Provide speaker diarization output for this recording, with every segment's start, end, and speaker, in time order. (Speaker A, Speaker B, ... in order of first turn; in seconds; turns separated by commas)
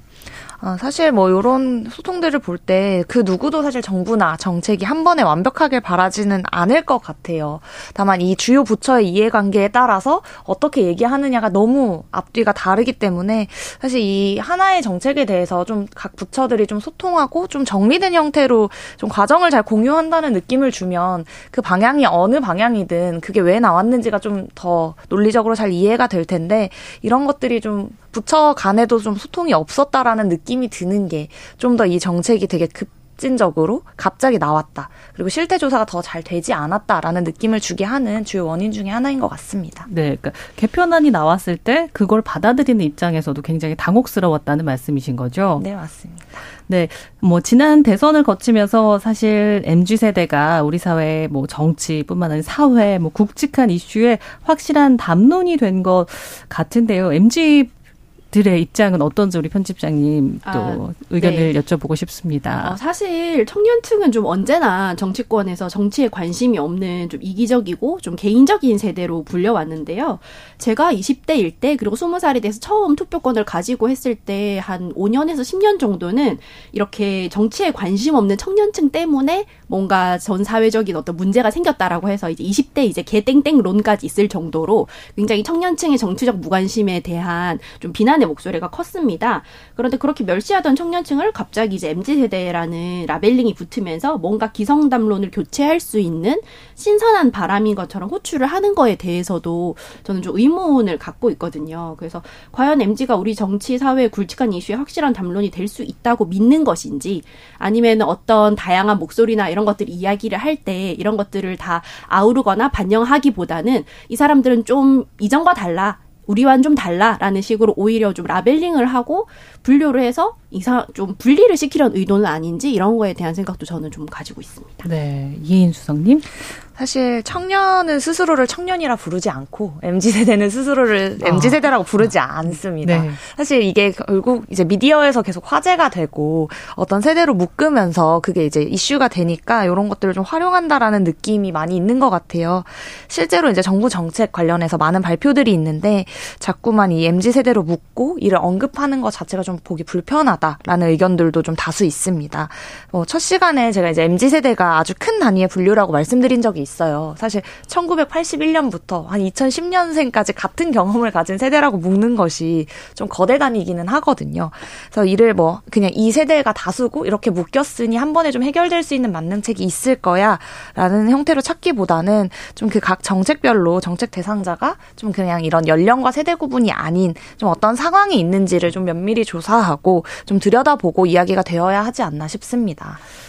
Speaker A: 0.6-39.9, Speaker B: 39.9-45.7, Speaker A: 45.6-46.4, Speaker B: 46.7-57.7, Speaker B: 58.3-62.8, Speaker C: 60.4-61.5, Speaker C: 62.6-124.9, Speaker B: 124.8-126.3, Speaker A: 126.8-183.0, Speaker B: 131.2-133.2